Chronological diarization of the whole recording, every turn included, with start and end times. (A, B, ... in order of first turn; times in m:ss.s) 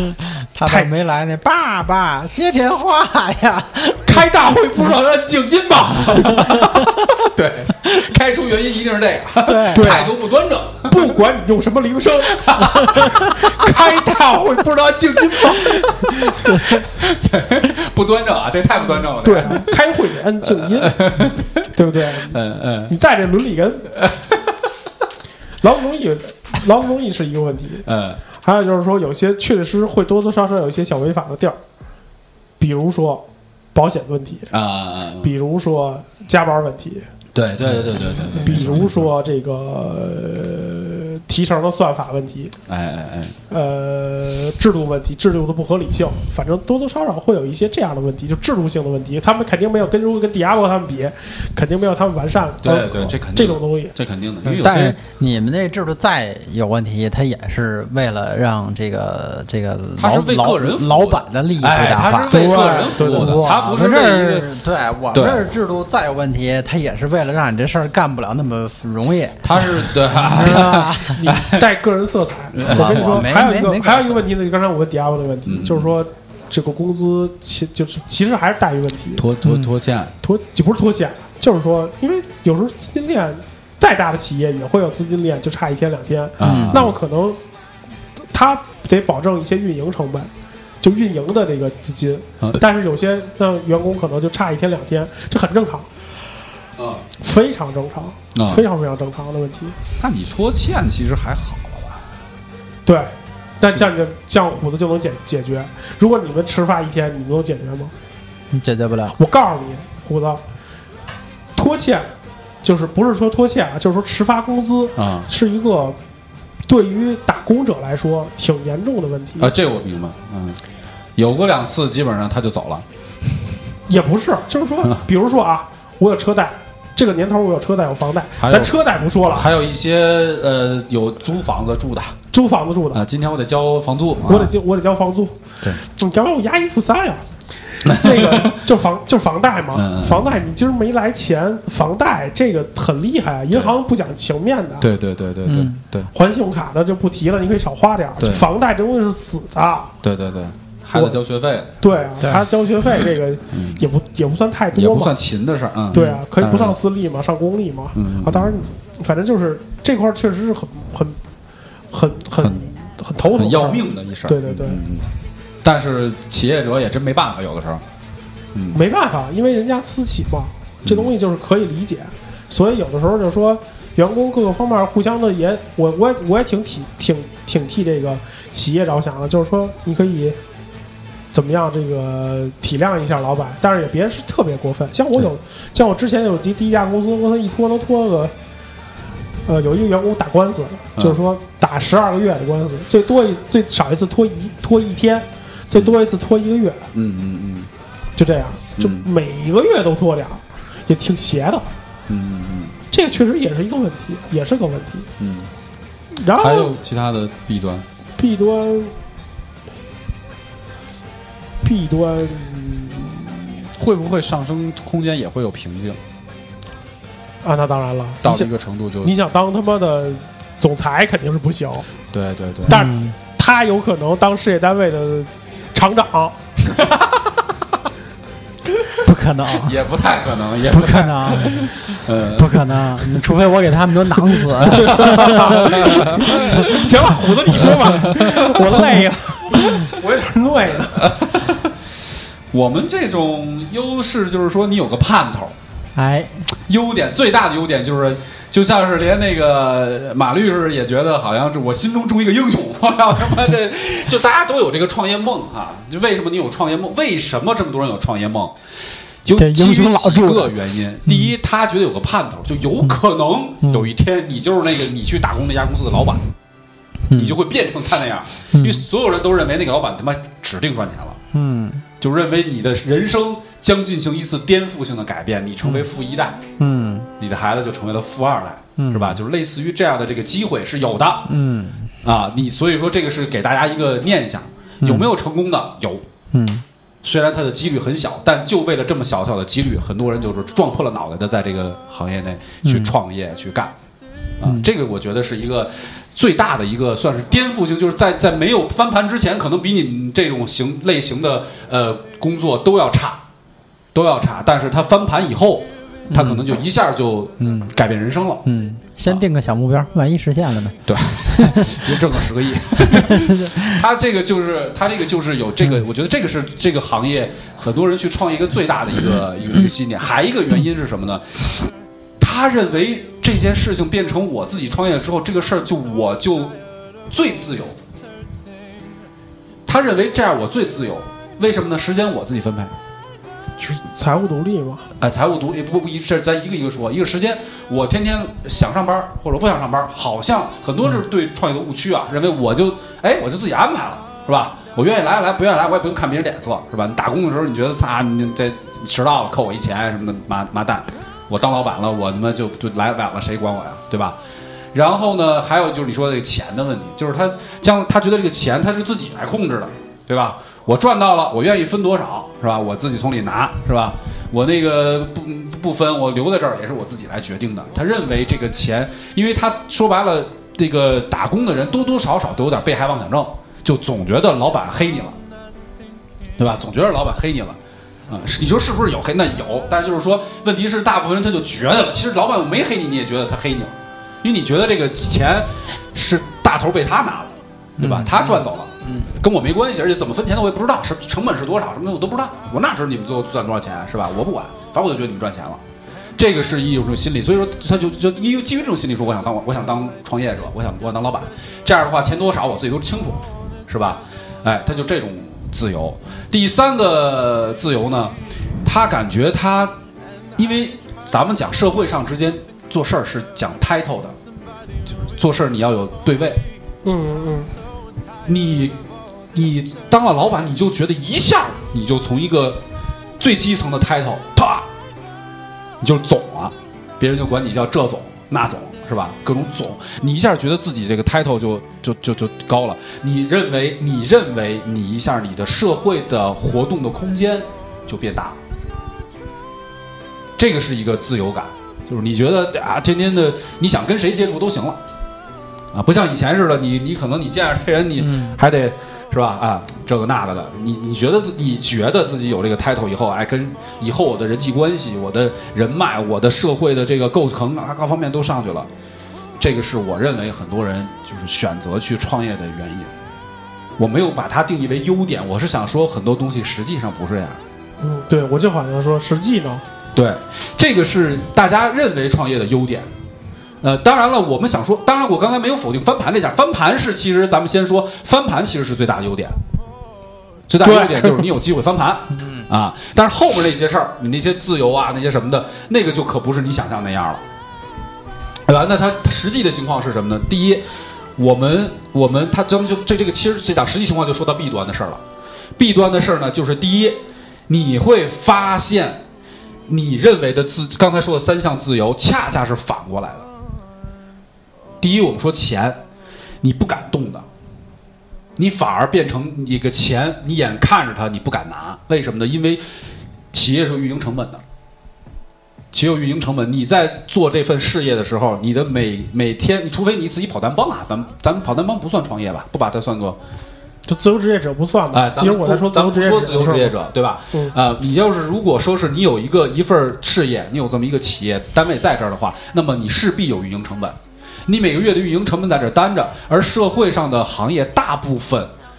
0:00.5-0:04.0 A
0:00.6-0:00.9 B
0:04.0-0:06.7 B
0:06.3-0:06.6 C
0:07.2-0:11.1 C
0:09.4-0:09.9 A
0:09.7-0:10.1 B
0:10.9-0:16.6 B
0:12.3-0:14.0 C
0:15.0-0:19.7 C
0:19.2-0:21.0 B
0:20.4-0:22.9 C
0:21.7-0:23.9 B
0:24.0-0:24.4 C
0:25.6-0:27.8 B
0:27.8-0:28.2 C
0:28.4-0:31.6 B
0:32.6-0:34.5 B
0:34.5-0:35.3 C
0:35.2-0:37.0 B
0:37.3-0:39.1 C
0:38.4-0:42.6 B
0:42.7-0:43.4 C
0:43.5-0:53.9 B
0:52.6-0:55.0 C
0:54.4-1:11.2 A
1:00.0-1:04.5 C
1:02.3-1:03.5 B
1:05.1-1:05.4 C
1:09.4-1:11.7 C
1:11.1-1:19.2 B
1:12.6-1:13.3 C
1:12.7-1:14.2 A
1:15.4-1:15.9 C
1:19.2-1:20.1 C
1:19.4-1:19.7 A
1:20.2-1:27.4 B
1:26.4-1:26.9 C
1:26.4-1:26.8 A
1:28.3-1:35.9 B
1:36.8-1:37.0 C
1:37.2-1:39.8 B
1:38.3-1:38.6 C
1:40.0-1:42.0 C
1:42.8-1:47.9 B
1:48.5-1:49.2 A
1:49.2-1:50.4 B
1:51.5-1:52.1 B
1:52.6-1:56.0 B
1:55.0-1:55.3 C
1:56.7-1:59.5 B
1:59.4-2:00.6 C
2:01.2-2:02.8 C
2:03.9-2:09.5 B
2:04.8-2:05.1 C
2:08.4-2:12.2 C
2:12.3-2:13.0 B
2:12.9-2:14.5 C
2:14.3-2:17.2 B
2:17.8-2:24.9 B
2:17.8-2:18.6 C
2:19.7-2:20.3 C
2:23.5-2:23.8 C
2:24.8-2:26.1 C
2:25.4-2:25.8 A
2:26.1-2:29.9 B
2:28.2-2:28.5 C
2:30.0-2:31.7 C
2:30.9-2:31.2 B
2:31.8-2:35.1 B
2:33.5-2:33.8 C
2:34.7-2:36.8 C
2:35.9-2:41.2 B
2:37.9-2:38.5 C
2:41.9-2:44.8 B
2:42.4-2:45.1 C
2:45.6-2:47.8 C
2:48.5-2:48.8 C
2:48.7-3:00.4 B
2:50.8-2:51.1 C
3:01.3-3:08.3 B
3:09.4-3:16.9 B
3:16.9-3:17.7 C
3:18.2-3:21.7 B
3:18.8-3:19.1 C
3:22.1-3:22.8 C
3:22.9-3:25.1 B
3:25.2-3:25.5 C
3:26.1-3:26.7 B
3:26.3-3:27.8 C
3:28.2-3:28.9 B
3:31.6-3:33.6 B
3:33.8-3:36.0 C
3:37.4-3:38.5 B
3:38.2-3:39.1 C
3:39.0-3:41.9 B
3:42.1-3:42.8 C
3:42.7-3:43.2 A
3:42.7-3:46.4 B
3:46.8-3:47.1 C
3:49.0-3:49.8 A
3:49.6-3:53.2 C
3:50.7-3:51.7 A
3:52.3-3:56.7 A
3:54.7-4:01.1 B
3:54.9-3:58.6 C
4:00.7-4:01.7 C
4:02.5-4:05.5 C
4:06.0-4:06.5 A
4:06.7-4:18.5 C
4:19.2-4:26.2 C
4:19.4-4:20.5 A
4:21.0-4:21.3 A
4:23.6-4:23.9 A
4:27.1-4:27.4 A
4:27.2-4:31.2 C
4:28.5-4:28.8 A
4:31.3-4:31.8 A
4:32.0-4:36.4 C
4:35.6-4:35.9 A
4:36.6-4:37.1 A
4:37.2-4:41.3 C
4:38.8-4:39.2 A
4:41.2-4:41.9 A
4:42.0-4:46.0 C
4:44.8-4:45.1 A
4:46.3-4:46.6 A
4:47.0-4:53.7 C
4:52.6-4:52.9 A
4:54.4-5:03.2 C
4:54.4-4:54.7 A
5:03.9-5:08.4 C
5:06.1-5:06.4 A
5:07.4-5:07.7 A
5:08.4-5:11.9 A
5:10.8-5:21.4 C
5:12.8-5:13.7 A
5:22.2-5:26.6 C
5:27.1-5:27.8 C
5:29.7-5:32.7 C
5:33.6-5:34.9 B
5:35.0-5:54.2 C
5:54.7-6:15.2 C
6:16.4-6:35.6 C
6:27.8-6:29.1 A
6:36.2-6:49.7 C
6:50.4-6:54.2 C
6:54.9-6:56.4 C
6:56.8-6:57.5 B
6:58.2-6:58.7 C
6:59.3-7:02.6 C
7:03.2-7:04.6 C
7:05.8-7:18.4 C
7:20.4-7:24.8 C
7:25.7-7:38.7 C
7:28.0-7:28.4 A
7:39.4-7:42.9 C
7:43.8-7:47.4 C
7:47.8-7:49.6 B
7:50.0-7:52.9 C
7:53.6-7:59.4 C
8:00.5-8:07.2 C
8:00.6-8:01.2 B
8:08.5-8:10.6 C
8:11.2-8:15.0 C
8:15.6-8:19.0 C
8:19.7-8:23.3 C
8:24.8-8:25.8 C
8:26.4-8:27.2 C
8:28.4-8:32.6 C
8:33.3-8:34.4 C
8:35.7-8:43.2 C
8:43.8-8:46.7 B
8:44.9-8:58.5 C